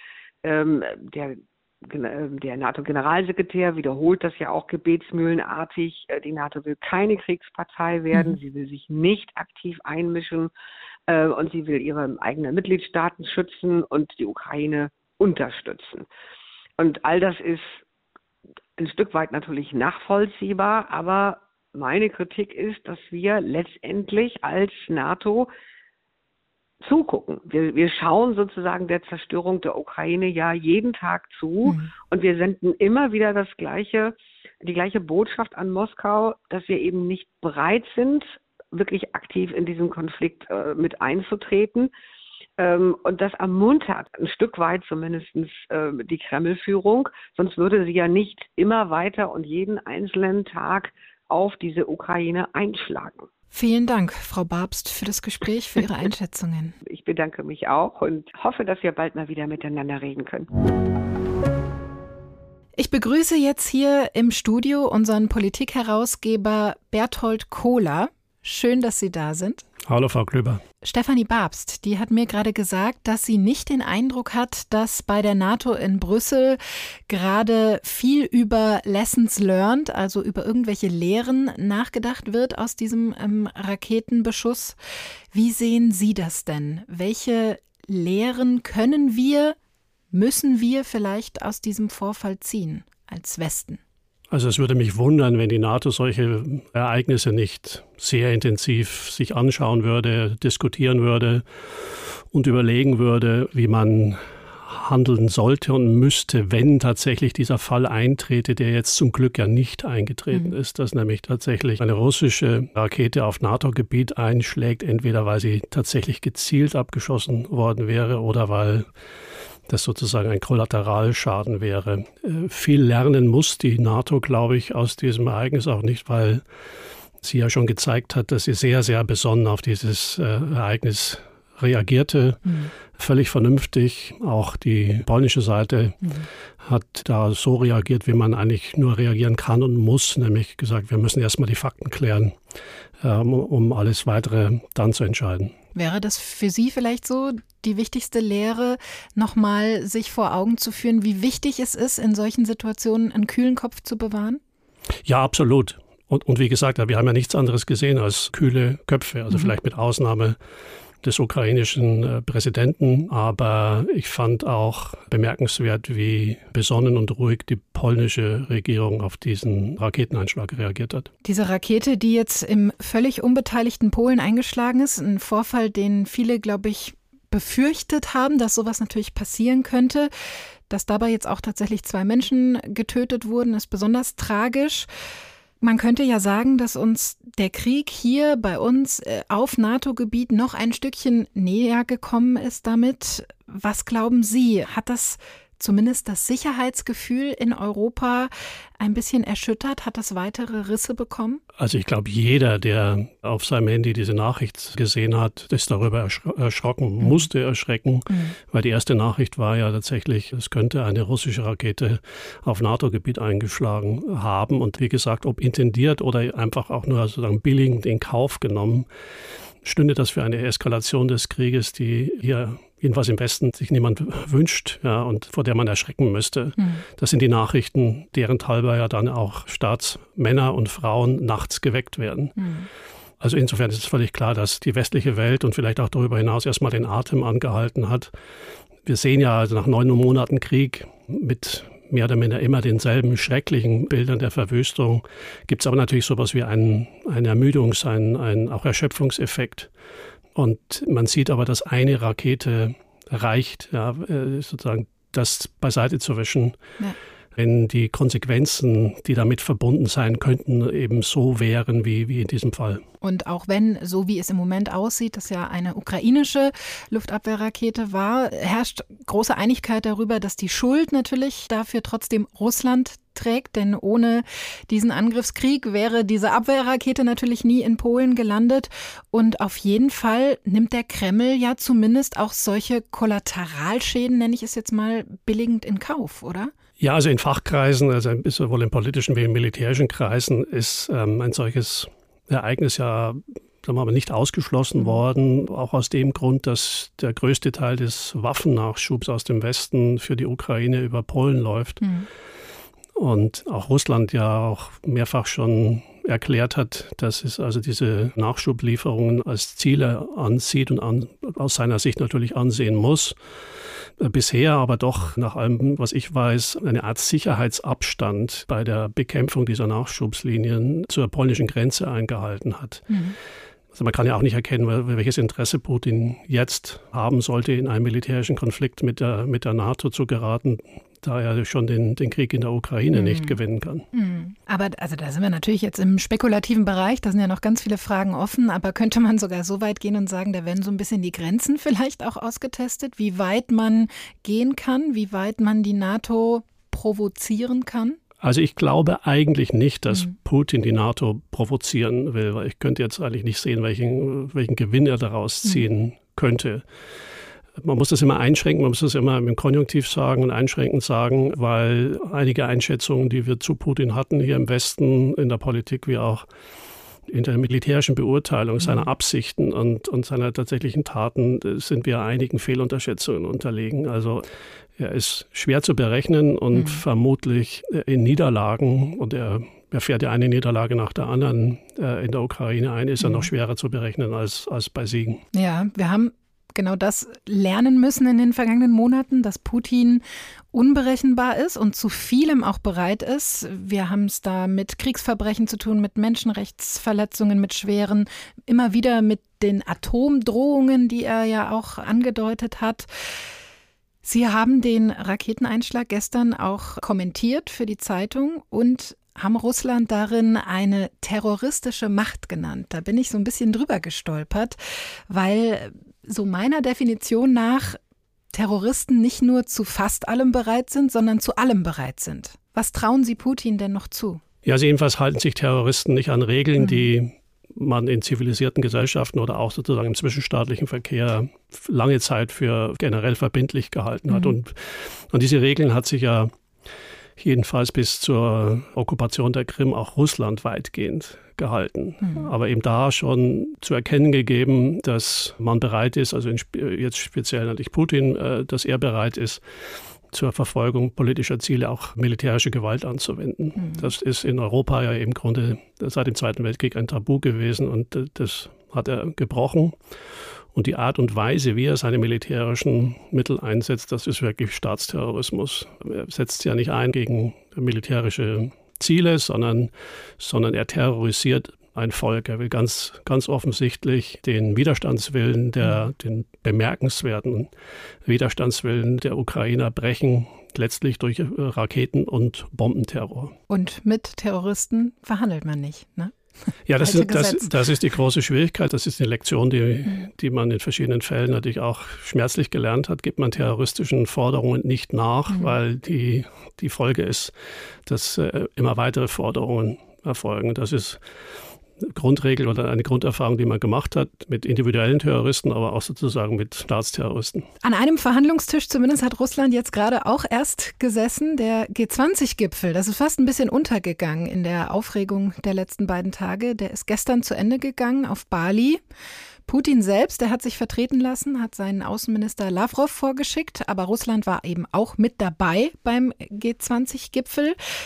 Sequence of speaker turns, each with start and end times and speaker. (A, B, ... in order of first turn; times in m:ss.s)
0:00.4-0:10.5 A
0:11.1-0:16.1 A
0:16.8-0:17.8 A
0:18.8-0:25.5 A
0:26.8-0:41.9 A
0:31.6-0:31.9 B
0:42.6-0:53.3 A
0:53.5-0:56.7 B
0:56.9-1:00.5 A
1:02.8-1:09.7 B
1:09.8-1:10.6 C
1:10.8-1:24.8 B
1:25.3-1:29.6 B
1:30.1-1:33.8 B
1:34.3-1:58.9 C
1:59.7-2:06.4 C
2:07.2-2:22.4 C
2:12.4-2:12.7 B
2:16.0-2:16.3 B
2:23.0-2:25.6 C
2:25.8-2:34.4 B
2:35.0-2:40.4 C
2:41.0-2:51.1 C
2:51.2-3:00.1 B
3:00.7-3:04.9 B
3:05.6-3:21.4 B
3:21.6-3:38.9 C
3:39.6-3:52.4 C
3:52.4-3:52.7 B
3:53.2-3:58.1 C
3:58.8-4:09.7 C
4:10.4-4:16.6 C
4:17.4-4:22.8 C
4:23.0-4:46.5 B
4:46.8-5:01.9 C
5:01.8-5:02.1 B
5:03.0-5:13.2 C
5:14.0-5:22.9 C
5:22.9-5:23.2 B
5:23.7-5:33.9 C
5:32.9-5:33.4 B
5:33.9-5:48.0 B
5:48.2-5:56.6 C
5:57.6-6:06.3 C
6:07.1-6:14.2 C
6:14.8-6:25.2 C
6:16.5-6:16.8 B
6:23.0-6:23.3 B
6:25.3-6:42.9 B
6:44.0-6:54.6 B
6:55.1-6:57.8 B
6:58.3-7:04.2 B
7:04.4-7:16.3 C
7:17.2-7:29.4 C
7:30.1-7:39.8 C
7:40.5-7:57.5 C
7:58.0-8:03.4 C
8:03.5-8:06.1 B
8:06.7-8:17.3 C
8:06.8-8:07.5 B
8:17.9-8:21.0 C
8:21.8-8:27.5 C
8:27.6-8:38.8 B
8:39.5-8:47.6 B